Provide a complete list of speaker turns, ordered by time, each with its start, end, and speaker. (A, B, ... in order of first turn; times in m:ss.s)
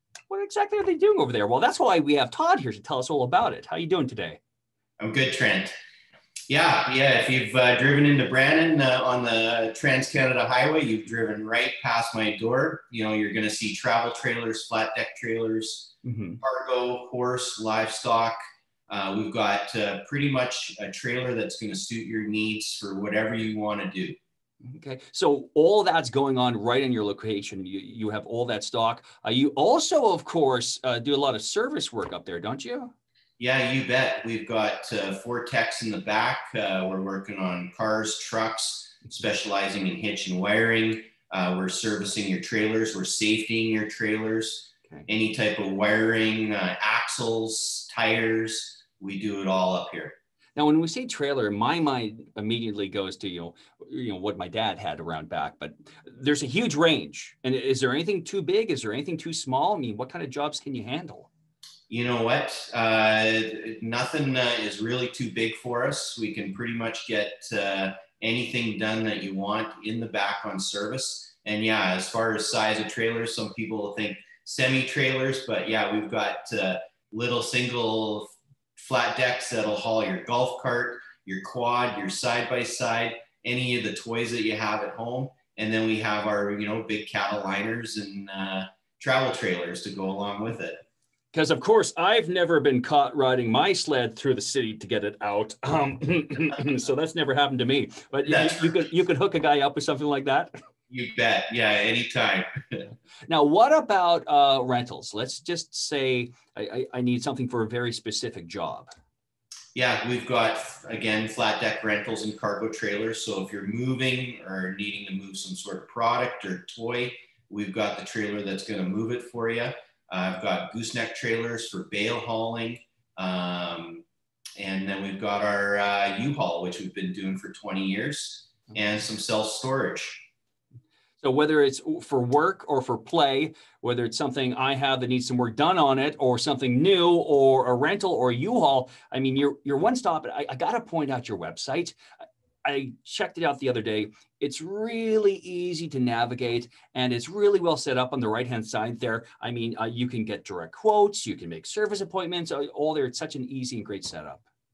0:00.3-0:04.4 A
0:05.0-0:05.7 B
0:06.5-0:18.4 B
0:16.0-0:16.4 A
0:18.9-0:24.2 B
0:24.6-0:32.9 A
0:33.4-0:50.2 B
0:50.6-1:01.3 A
1:01.9-1:30.8 B
1:31.3-1:40.5 A
1:38.3-1:38.7 B
1:40.9-1:42.9 B
1:43.3-1:48.9 A
1:49.7-2:04.0 B
2:04.6-2:10.2 B
2:11.2-2:22.0 A
2:22.6-2:34.4 A